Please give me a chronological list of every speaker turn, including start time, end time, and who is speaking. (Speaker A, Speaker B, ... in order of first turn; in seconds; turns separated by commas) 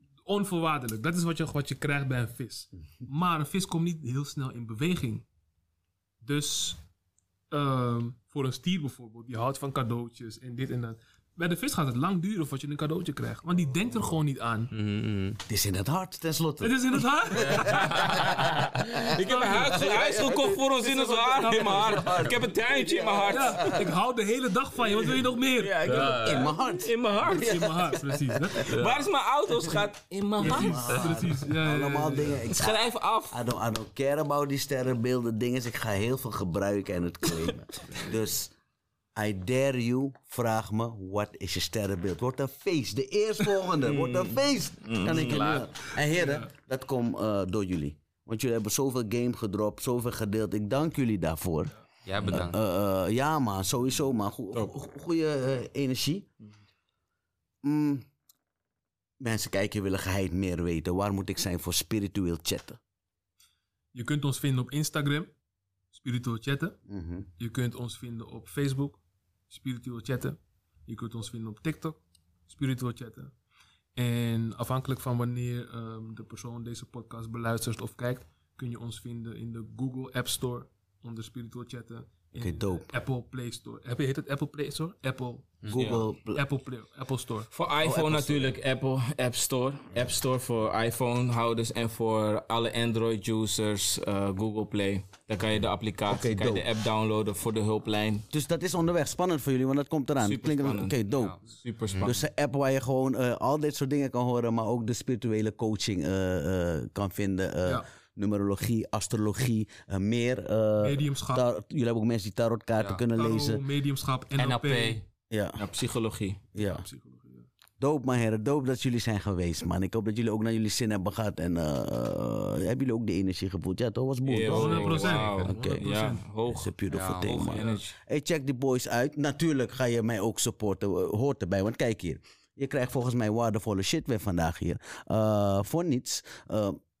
Speaker A: 0.2-5.2, Speaker A: 6.2-6.8, Speaker A: 7.5-14.7, Speaker B: 14.7-15.4, Speaker C: 15.5-18.4, Speaker A: 16.6-18.5, Speaker B: 17.3-18.4, Speaker D: 18.2-23.8, Speaker C: 19.0-20.6, Speaker A: 19.1-19.9, Speaker A: 20.8-22.2, Speaker C: 21.6-23.8, Speaker A: 23.3-25.9, Speaker D: 25.6-27.5, Speaker B: 25.8-26.5, Speaker C: 26.1-28.6, Speaker A: 27.3-28.8, Speaker D: 28.6-30.9, Speaker B: 28.7-29.1, Speaker C: 30.4-38.5, Speaker A: 30.4-32.4, Speaker B: 30.9-31.1, Speaker D: 32.5-33.4, Speaker C: 39.1-51.7, Speaker D: 43.8-45.5, Speaker B: 45.0-45.9, Speaker A: 46.1-46.5, Speaker B: 52.0-52.6, Speaker C: 52.3-56.3, Speaker C: 57.6-58.1, Speaker C: 59.2-62.8, Speaker A: 63.9-65.3, Speaker A: 65.9-66.8, Speaker C: 66.9-67.3, Speaker A: 67.4-73.3, Speaker A: 74.0-85.8, Speaker C: 82.4-82.9, Speaker C: 85.7-86.4, Speaker D: 85.7-86.0, Speaker A: 86.3-87.5, Speaker D: 87.5-98.2, Speaker C: 87.8-88.6, Speaker C: 96.1-96.7, Speaker C: 98.3-101.4, Speaker D: 100.2-102.3, Speaker B: 101.1-101.4, Speaker C: 102.0-113.6, Speaker A: 110.8-111.4, Speaker A: 113.1-115.0, Speaker B: 114.3-115.0, Speaker C: 115.3-115.6, Speaker D: 115.6-116.4, Speaker C: 116.5-116.8, Speaker A: 116.6-117.5, Speaker C: 117.8-136.8, Speaker D: 124.2-126.7, Speaker A: 124.5-126.2, Speaker B: 126.9-127.9